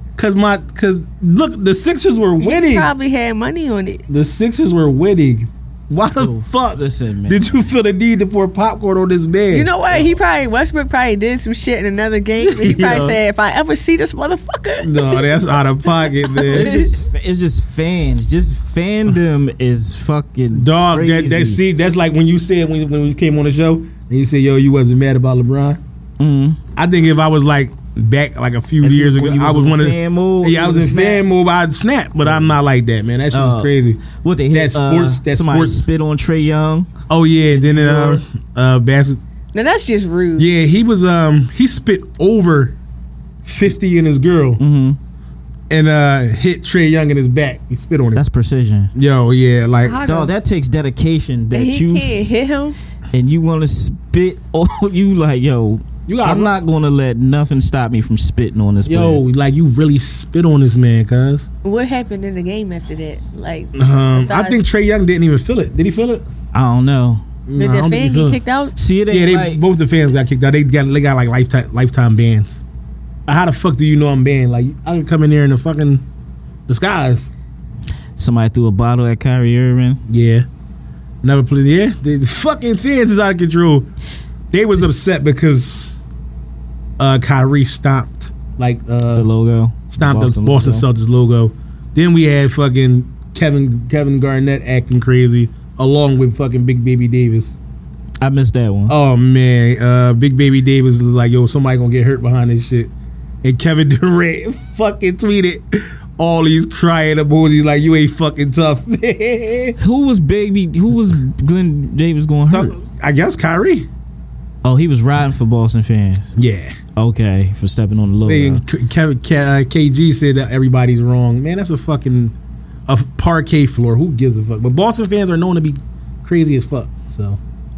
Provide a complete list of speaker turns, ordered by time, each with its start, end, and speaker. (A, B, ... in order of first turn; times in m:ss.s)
0:00.2-0:02.9 A
0:02.4-0:04.0 B
0:04.1-0:09.7 A
0:06.2-0:07.4 C
0:09.5-0:17.0 B
0:12.4-0:13.2 A
0:14.8-0:16.7 A
0:16.5-0:21.6 C
0:20.5-0:25.8 A
0:26.2-0:26.6 C
0:26.8-0:34.0 A
0:28.8-0:31.2 C
0:32.2-0:32.5 C
0:33.3-0:36.9 C
0:34.5-0:35.8 A
0:37.1-0:39.2 A
0:37.5-0:38.2 C
0:39.5-0:40.5 B
0:40.4-0:42.8 A
0:43.4-0:44.6 A
0:44.6-0:45.0 C
0:45.7-0:48.2 A
0:48.1-0:48.9 C
0:48.9-0:50.0 A
0:49.8-0:50.3 B
0:50.0-0:52.3 C
0:51.5-0:52.8 B
0:53.1-0:59.2 C
0:56.1-0:56.5 A
0:58.8-1:01.5 A
1:01.6-1:04.6 B
1:03.7-1:06.2 A
1:06.5-1:07.2 C
1:07.5-1:08.4 A
1:07.6-1:08.7 B
1:08.8-1:09.6 C
1:09.1-1:12.6 A
1:13.3-1:16.0 A
1:16.7-1:17.3 A
1:18.2-1:20.0 C
1:20.1-1:20.5 A
1:21.2-1:23.9 A
1:24.5-1:26.0 A
1:27.0-1:29.3 A
1:29.1-1:30.8 C
1:29.9-1:37.6 A
1:38.2-1:38.9 C
1:38.9-1:42.9 A
1:43.4-1:49.8 A
1:49.8-1:52.7 C
1:52.5-1:53.9 A
1:54.6-1:56.3 C
1:56.4-1:56.8 A
1:57.0-1:58.6 C
1:58.2-2:02.3 A
2:02.9-2:07.4 A